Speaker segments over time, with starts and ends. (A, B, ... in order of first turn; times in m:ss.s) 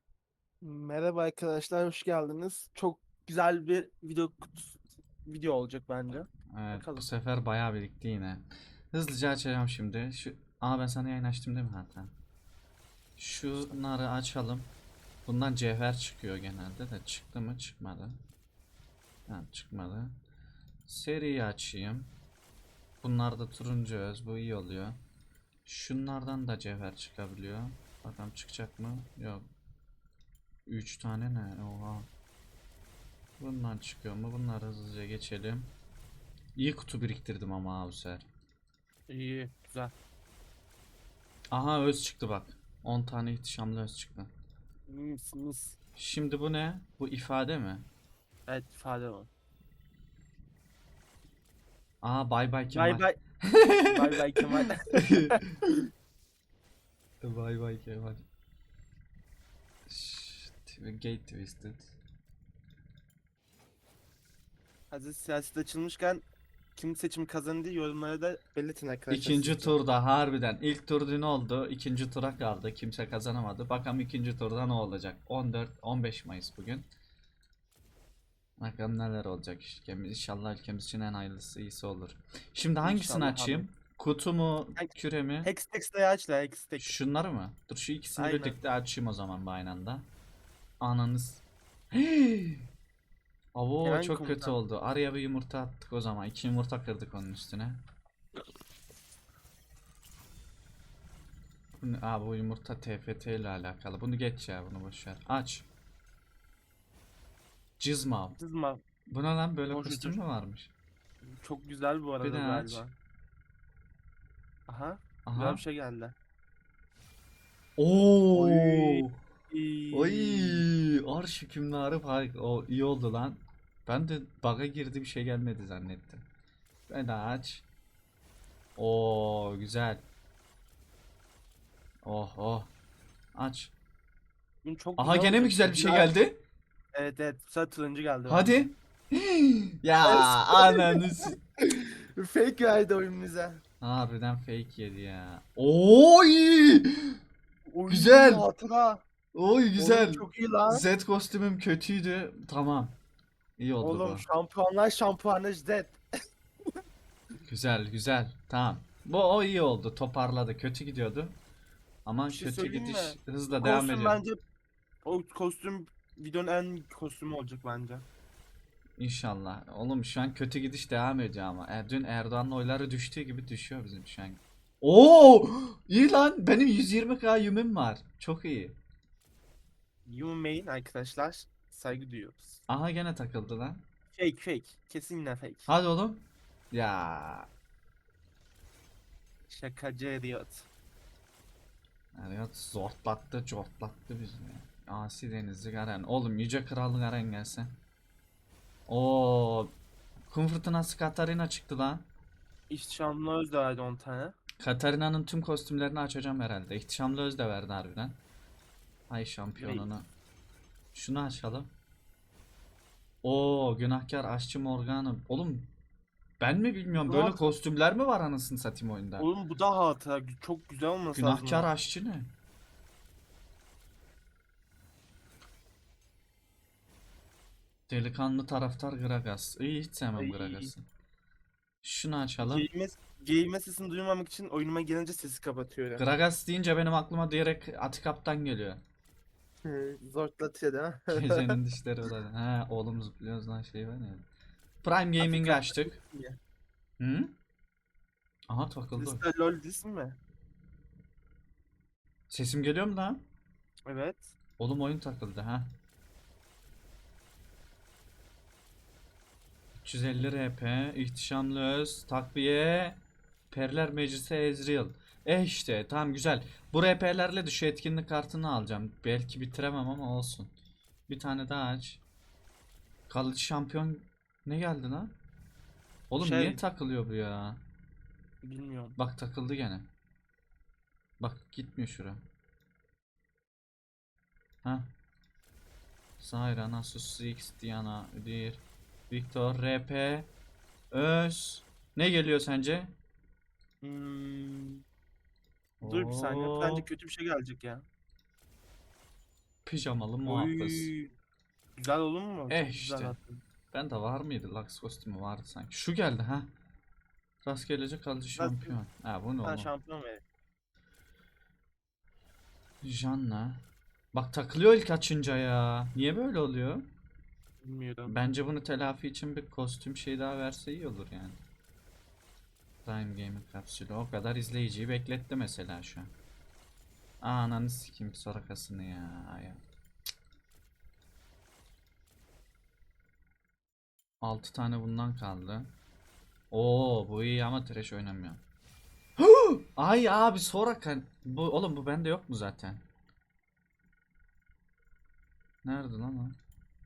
0:00.6-0:07.1 A
0:06.5-0:12.1 B
0:13.2-0:14.7 B
0:13.5-0:13.8 A
0:15.3-0:18.2 B
0:19.3-0:20.2 B
0:20.9-0:22.1 B
0:23.0-0:25.0 B
0:25.7-0:29.4 B
0:30.7-0:32.1 B
0:33.4-0:35.7 B
0:36.6-0:38.3 B
0:39.1-0:40.0 A
0:41.5-0:44.3 B
0:44.9-0:45.8 A
0:46.0-0:47.9 B
0:48.5-0:49.3 A
0:52.0-0:54.0 B
0:52.7-0:53.2 A
0:53.9-0:55.4 A
0:54.9-0:55.8 B
0:57.2-0:58.2 B
0:59.9-1:02.0 B
1:04.9-1:09.8 A
1:09.1-1:16.9 B
1:18.6-1:25.5 B
1:22.8-1:23.7 A
1:24.8-1:27.0 A
1:26.8-1:30.1 B
1:28.2-1:28.6 A
1:30.8-1:32.7 B
1:33.6-1:37.8 B
1:33.8-1:34.6 A
1:41.8-1:45.7 B
1:47.8-1:48.4 B
1:48.4-1:48.8 A
1:49.1-1:50.7 B
1:49.7-1:50.2 A
1:51.2-1:53.0 A
1:52.2-1:52.9 B
1:54.7-1:56.2 A
1:55.3-1:55.6 B
1:57.8-1:59.2 B
1:58.3-2:00.7 A
1:59.9-2:06.2 B
2:06.9-2:07.7 B
2:08.8-2:10.0 B
2:12.0-2:12.7 B
2:13.4-2:13.7 B
2:14.6-2:16.1 A
2:15.0-2:16.4 B
2:16.9-2:18.7 A
2:18.3-2:21.4 B
2:20.0-2:23.6 A
2:23.8-2:27.2 B
2:27.6-2:29.0 A
2:27.9-2:28.5 B
2:29.3-2:33.0 B
2:29.8-2:30.9 A
2:33.6-2:34.2 B
2:33.8-2:36.0 A
2:37.4-2:41.4 B
2:42.1-2:44.2 B
2:42.3-2:44.4 A
2:45.0-2:48.1 A
2:49.0-2:58.8 B
3:00.1-3:02.6 A
3:02.7-3:03.8 B
3:04.1-3:05.7 A
3:05.7-3:07.5 B
3:09.5-3:10.7 A
3:12.2-3:17.7 B
3:18.9-3:19.7 B
3:20.3-3:22.1 B
3:22.7-3:24.4 A
3:24.6-3:28.2 B
3:29.1-3:30.1 B
3:29.6-3:29.9 A
3:30.9-3:31.7 B
3:33.2-3:35.7 B
3:36.4-3:39.3 B
3:37.0-3:37.6 A
3:39.2-3:41.7 A
3:41.1-3:42.3 B
3:47.9-3:50.8 B
3:50.2-3:50.7 A
3:51.8-3:52.7 B
3:52.4-3:56.1 A
3:56.0-3:58.8 B
3:59.6-4:01.6 A
4:01.1-4:04.3 B
4:04.8-4:06.0 B
4:05.2-4:06.4 A
4:07.0-4:07.3 B
4:08.5-4:09.2 B
4:09.0-4:10.2 A
4:12.3-4:13.2 B
4:13.9-4:14.4 A
4:14.6-4:15.7 B
4:19.8-4:23.0 B
4:23.5-4:30.5 B
4:31.1-4:32.0 B
4:33.1-4:35.1 B
4:36.1-4:37.6 B
4:36.2-4:36.6 A
4:38.4-4:39.0 A
4:39.0-4:39.9 B
4:41.2-4:42.2 B
4:44.6-4:44.9 B
4:46.2-4:50.3 B
4:50.9-4:52.9 B
4:53.8-4:54.8 A
4:55.8-4:56.9 B
4:55.8-4:57.9 A
4:59.7-5:00.9 B
5:00.2-5:01.1 A
5:01.8-5:03.4 A
5:02.5-5:03.2 B
5:03.7-5:06.5 B
5:07.4-5:09.7 B
5:08.4-5:08.8 A
5:09.4-5:10.2 A
5:12.8-5:16.9 B
5:17.6-5:18.2 A
5:18.1-5:21.4 B
5:22.8-5:26.1 B
5:27.2-5:29.6 B
5:34.2-5:35.7 B
5:36.5-5:38.4 B
5:39.2-5:42.8 B
5:45.6-5:46.4 B